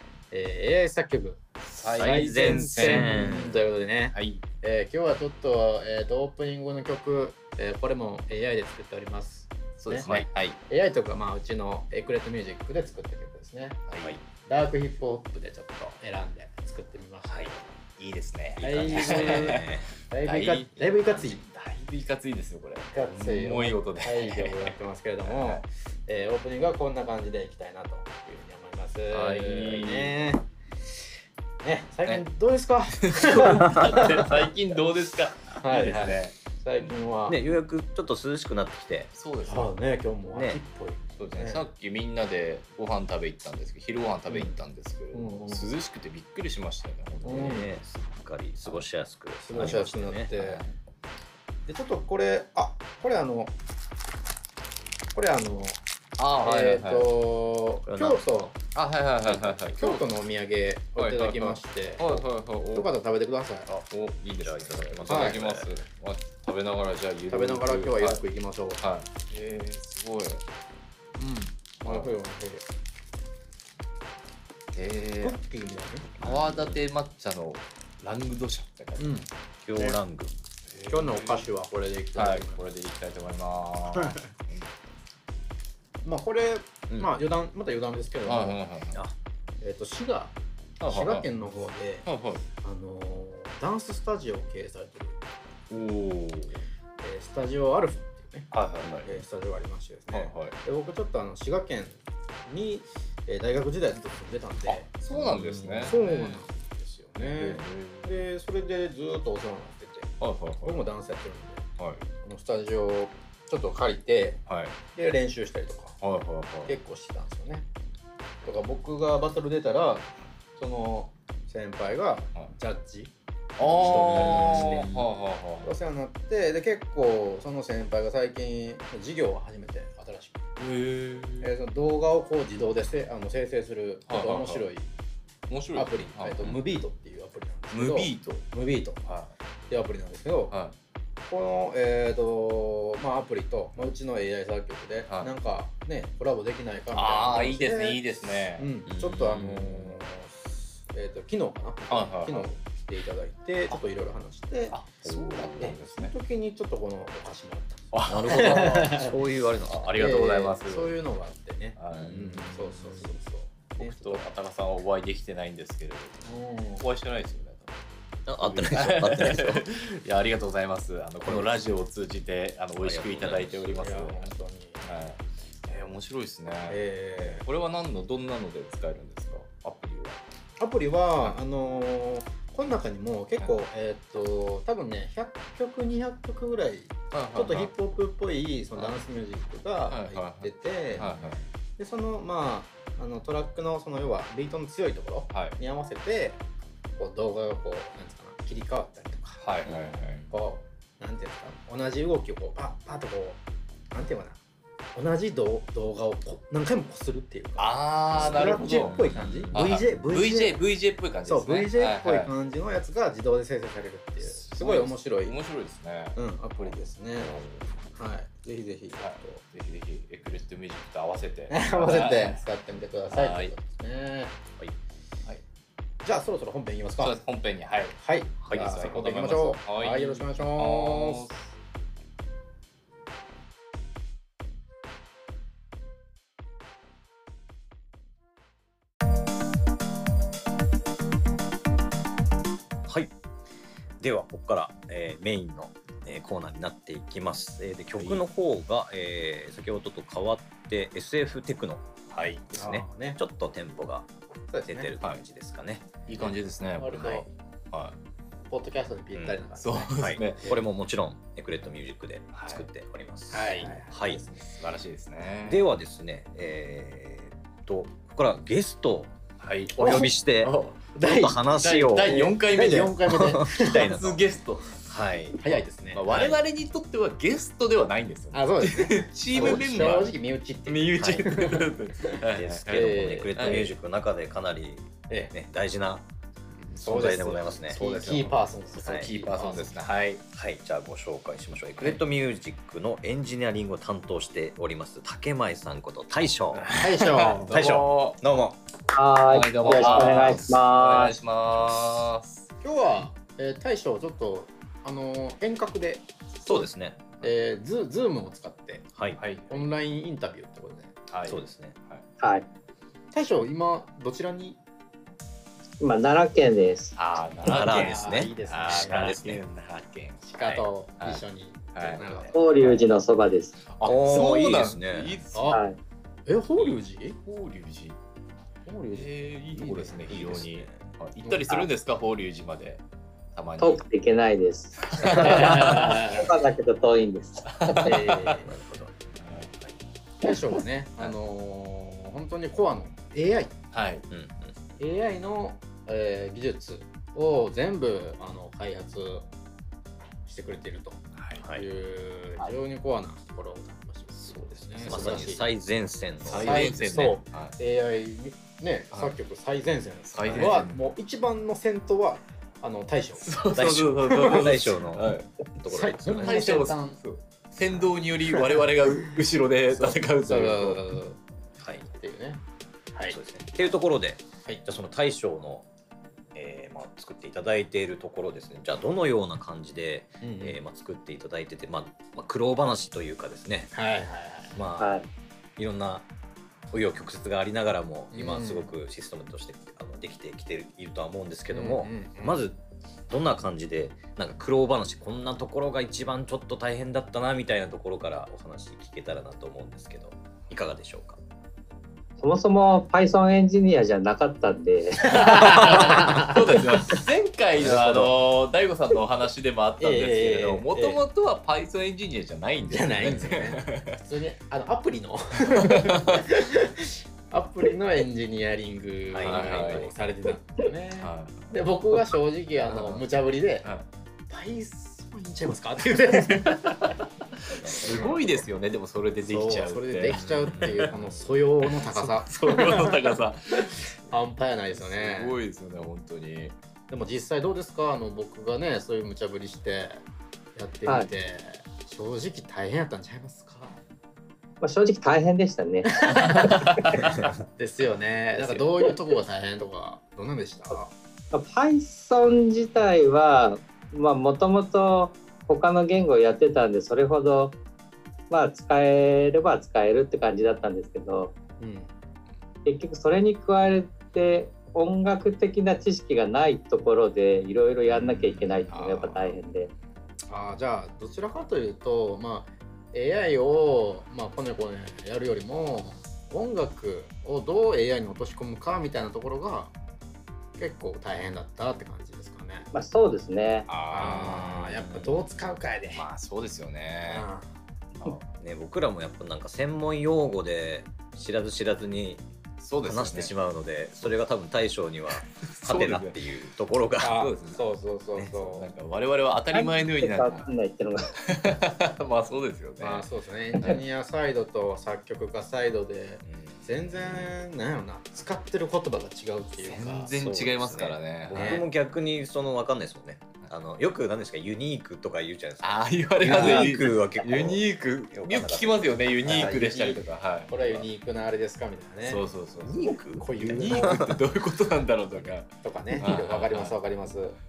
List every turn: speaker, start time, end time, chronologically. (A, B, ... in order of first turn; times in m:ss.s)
0:00.3-0:10.1 A
0:01.8-0:03.3 B
0:02.0-0:03.6 C
0:04.1-0:04.4 B
0:09.8-0:10.6 B
0:10.0-0:10.3 C
0:10.7-0:13.8 A
0:13.9-0:14.2 B
0:14.4-0:17.6 A
0:17.2-0:17.5 C
0:18.0-0:25.6 B
0:18.6-0:21.4 A
0:18.8-0:19.9 C
0:22.9-0:30.4 A
0:29.1-0:30.2 B
0:31.6-0:34.3 A
0:33.0-0:36.9 B
0:35.6-0:37.4 A
0:37.3-0:39.1 C
0:39.1-0:39.7 B
0:39.4-0:41.6 A
0:40.3-0:40.6 C
0:41.2-0:47.7 B
0:44.3-0:44.6 A
0:45.1-0:45.7 A
0:47.2-0:47.7 A
0:47.2-0:50.6 C
0:49.4-0:50.6 A
0:49.5-0:49.8 B
0:50.4-0:50.7 B
0:51.7-0:53.6 A
0:55.1-0:55.8 A
0:56.2-0:57.1 B
0:56.4-0:58.5 A
0:57.8-0:58.4 C
0:58.7-1:00.1 B
0:59.3-0:59.6 C
0:59.7-1:03.7 A
1:01.0-1:02.9 B
1:03.7-1:05.7 C
1:03.9-1:08.2 B
1:05.1-1:05.6 A
1:07.3-1:08.8 A
1:08.8-1:10.4 B
1:11.2-1:12.6 A
1:11.8-1:12.1 B
1:14.7-1:15.4 B
1:15.2-1:16.2 A
1:16.2-1:19.1 B
1:16.2-1:16.8 C
1:19.0-1:20.0 A
1:19.6-1:20.3 C
1:20.7-1:21.5 B
1:20.9-1:22.6 A
1:22.1-1:24.7 B
1:23.9-1:24.2 A
1:26.0-1:28.6 A
1:28.2-1:29.0 B
1:29.6-1:32.1 A
1:30.8-1:31.3 B
1:32.0-1:32.4 B
1:32.6-1:35.2 A
1:35.7-1:36.6 B
1:37.0-1:50.1 A
1:38.5-1:39.2 B
1:40.1-1:40.6 B
1:44.7-1:46.5 B
1:45.3-1:46.0 C
1:47.2-1:48.3 B
1:50.2-1:50.8 B
1:50.6-1:51.6 A
1:52.2-1:54.4 A
1:54.5-1:54.8 B
1:54.9-1:56.0 A
1:56.0-1:56.7 B
1:56.6-1:57.7 A
1:58.4-2:05.1 A
2:03.6-2:05.7 B
2:05.6-2:10.4 A
2:10.6-2:11.5 B
2:11.4-2:14.9 A
2:14.0-2:14.6 B
2:15.5-2:16.6 B
2:15.7-2:19.0 A
2:17.7-2:18.4 B
2:19.0-2:19.3 B
2:19.7-2:20.5 A
2:21.2-2:39.2 A
2:26.9-2:28.7 B
2:28.8-2:29.9 C
2:31.9-2:32.5 B
2:34.7-2:36.1 B
2:35.4-2:35.7 C
2:37.9-2:39.0 B
2:38.1-2:40.0 C
2:39.7-2:41.0 B
2:39.9-2:44.2 A
2:41.8-2:43.1 B
2:41.9-2:42.5 C
2:43.8-2:47.8 B
2:46.2-2:46.9 A
2:48.2-2:49.6 C
2:48.4-2:54.3 B
2:51.2-2:51.5 C
2:52.8-2:53.6 C
2:53.7-2:54.8 A
2:54.8-3:00.2 B
2:56.7-2:57.4 A
3:00.6-3:16.4 A
3:07.1-3:07.7 B
3:09.9-3:11.4 B
3:15.3-3:15.6 B
3:17.0-3:24.4 A
3:19.4-3:20.3 B
3:24.9-3:30.6 A
3:27.6-3:32.3 B
3:28.1-3:29.6 C
3:31.2-3:35.4 A
3:34.2-3:37.7 B
3:36.2-3:39.4 A
3:39.0-3:42.4 B
3:41.5-3:44.4 A
3:43.1-3:43.5 B
3:46.0-3:47.2 A
3:47.0-3:48.0 B
3:48.0-3:51.3 A
3:48.4-3:49.0 C
3:48.5-3:51.4 B
4:02.8-4:03.1 C
4:04.0-4:14.1 C
4:08.0-4:08.2 B
4:12.5-4:13.2 A
4:14.5-4:14.9 A
4:14.7-4:15.9 C
4:16.0-4:18.0 B
4:16.2-4:17.3 A
4:18.5-4:20.6 A
4:19.1-4:19.4 C
4:19.6-4:20.6 B
4:20.0-4:24.2 C
4:22.3-4:22.7 B
4:23.3-4:24.6 A
4:24.6-4:25.6 B
4:25.4-4:29.1 C
4:29.4-4:30.9 B
4:29.7-4:32.2 C
4:31.0-4:31.4 A
4:31.4-4:33.0 B
4:32.0-4:33.9 A
4:33.0-4:34.3 C
4:33.7-4:40.1 B
4:34.9-4:35.4 C
4:35.4-4:36.2 A
4:36.1-4:36.4 C
4:38.3-4:41.8 A
4:39.3-4:40.1 C
4:40.6-4:43.7 B
4:41.0-4:41.3 C
4:42.3-4:46.0 C
4:42.7-4:43.7 A
4:46.5-4:49.8 A
4:46.8-4:48.2 C
4:47.7-4:50.2 B
4:48.8-4:49.1 C
4:50.3-4:56.8 C
4:56.5-4:58.2 B
4:56.8-4:57.8 A
4:57.4-4:58.6 C
4:58.9-5:01.1 D
4:59.3-5:02.5 B
4:59.6-5:00.5 C
4:59.7-5:00.1 A
5:02.6-5:08.9 A
5:06.4-5:07.0 C
5:08.9-5:09.2 C
5:09.1-5:09.7 B
5:09.5-5:10.9 A
5:11.1-5:12.0 B
5:11.3-5:11.8 C
5:12.2-5:12.4 D
5:13.1-5:14.6 A
5:15.8-5:16.9 D
5:17.0-5:20.2 B
5:17.4-5:19.4 C
5:17.5-5:19.1 A
5:20.2-5:22.5 A
5:21.0-5:22.3 B
5:22.3-5:23.5 D
5:23.7-5:25.6 B
5:23.8-5:25.2 C
5:25.3-5:25.6 A
5:25.5-5:25.8 D
5:26.2-5:27.2 A
5:26.6-5:28.0 B
5:28.6-5:30.2 A
5:28.9-5:32.8 B
5:30.1-5:30.8 C
5:31.2-5:31.6 A
5:33.3-5:33.8 B
5:33.6-5:38.0 D
5:34.8-5:35.7 B
5:35.0-5:36.3 A
5:37.6-5:38.4 B
5:37.8-5:38.6 A
5:38.3-5:38.9 C
5:39.2-5:39.5 B
5:40.2-5:43.5 A
5:43.7-5:44.0 B
5:44.1-5:44.8 C
5:44.8-5:49.3 A
5:50.2-5:51.0 A
5:51.2-5:51.4 B
5:51.4-5:51.6 C
5:51.5-5:55.4 A
5:54.5-5:57.1 C
5:54.7-5:55.2 B
5:56.2-6:03.3 A
5:56.3-5:57.6 B
6:00.1-6:00.8 B
6:00.3-6:00.6 C
6:03.2-6:05.3 B
6:03.5-6:06.7 C
6:04.1-6:04.4 A
6:05.6-6:07.0 A
6:06.1-6:11.0 B
6:07.7-6:07.9 C
6:09.7-6:11.2 A
6:11.6-6:11.9 C
6:11.9-6:12.4 A
6:13.1-6:15.7 C
6:16.3-6:23.7 C
6:20.2-6:20.6 A
6:23.7-6:24.6 A
6:24.5-6:25.0 C
6:24.8-6:25.1 D
6:25.6-6:26.1 C
6:26.7-6:41.2 C
6:28.1-6:28.7 A
6:31.5-6:32.4 A
6:42.2-6:46.3 D
6:45.1-6:46.6 A
6:45.2-6:54.0 B
6:47.6-6:48.1 A
6:47.7-6:48.0 C
6:49.8-6:51.0 A
6:52.6-7:03.7 A
6:55.6-6:56.2 B
6:59.1-6:59.9 C
6:59.2-6:59.9 B
7:01.0-7:01.5 B
7:02.6-7:03.0 B
7:04.3-7:06.9 A
7:06.3-7:06.8 B
7:07.5-7:10.9 B
7:07.6-7:08.1 C
7:07.7-7:08.2 A
7:09.2-7:13.2 A
7:10.1-7:11.2 C
7:11.6-7:13.9 B
7:14.1-7:15.4 A
7:14.7-7:16.5 B
7:16.9-7:20.0 A
7:20.5-7:23.8 A
7:24.6-7:27.0 D
7:26.1-7:30.9 A
7:26.4-7:26.7 B
7:31.3-7:37.6 D
7:38.3-7:41.3 D
7:41.6-7:41.9 A
7:42.6-7:49.7 D
7:47.9-7:49.4 A
7:50.3-7:59.7 A
8:00.6-8:02.7 A
8:02.7-8:03.7 D
8:03.7-8:04.4 B
8:03.9-8:06.0 A
8:04.0-8:05.2 C
8:05.9-8:07.3 B
8:07.0-8:07.5 A
8:07.9-8:08.2 B
8:08.4-8:12.2 C
8:12.6-8:13.3 B
8:12.8-8:17.2 C
8:15.2-8:16.5 B
8:17.0-8:18.7 A
8:17.1-8:17.6 B
8:18.1-8:18.4 C
8:18.5-8:20.5 B
8:19.5-8:21.1 D
8:21.2-8:23.1 B
8:22.8-8:30.1 A
8:26.2-8:27.4 C
8:29.6-8:31.6 B
8:30.1-8:39.6 C
8:31.3-8:31.7 A
8:35.6-8:40.9 B
8:36.2-8:36.8 A
8:39.2-8:42.2 A
8:42.0-8:46.8 B
8:42.6-8:44.2 C
8:43.1-8:44.0 A
8:45.6-8:47.4 A